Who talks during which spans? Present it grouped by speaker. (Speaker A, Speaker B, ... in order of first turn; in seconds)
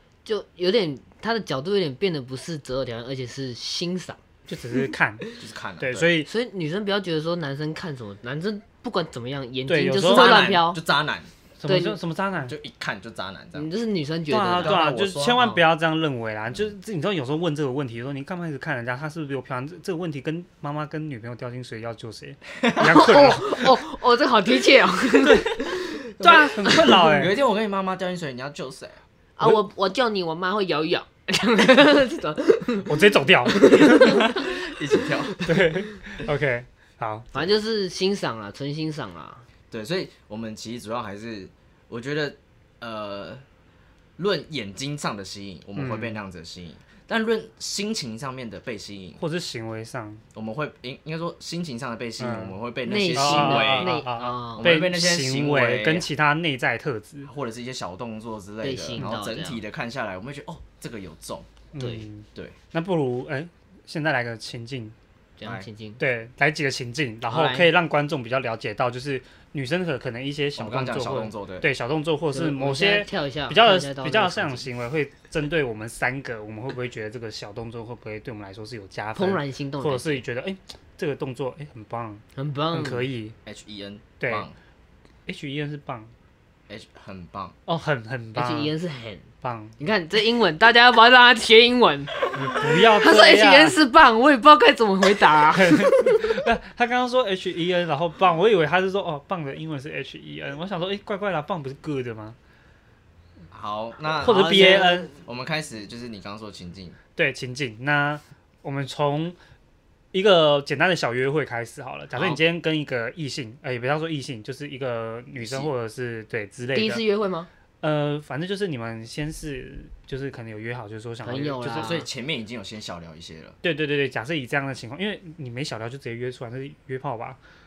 Speaker A: 0.2-4.2, 6.2-10.8, 11.7-12.0, 13.5-14.8, 22.8-27.1, 29.4-34.5, 35.3-35.5, 37.3-39.4, 52.8-54.7, 58.6-59.6, 61.8-62.0, 65.4-66.0, 67.3-67.7, 72.3-74.7, 79.2-80.2, 82.3-83.0, 88.3-89.3, 89.8-96.3, 104.3-105.0, 112.1-112.4, 116.7-117.5, 121.2-122.1
Speaker B: 4.5-5.2, 5.8-6.3, 9.7-10.4, 11.6-12.5, 14.3-23.7, 25.2-25.6, 26.2-27.3, 32.9-34.2, 35.4-37.3, 45.8-46.1, 49.2-50.2, 52.2-52.5, 53.1-57.3, 61.7-64.9, 66.0-83.3, 84.2-84.5, 85.3-86.1, 87.7-88.7, 89.4-89.7, 92.3-93.8, 95.5-102.4, 104.2-105.1, 107.2-109.4, 110.1-117.0, 117.8-122.0, 123.6-127.4
Speaker C: 5.4-6.1, 10.1-11.3, 12.5-13.7, 14.6-15.5, 22.6-23.2, 26.8-29.0, 33.9-35.4, 39.7-43.4, 44.2-49.2, 50.3-56.1, 57.2-61.5, 70.5-71.7, 83.5-84.5, 86.7-87.5, 103.5-107.0, 115.3-115.7, 121.7-123.6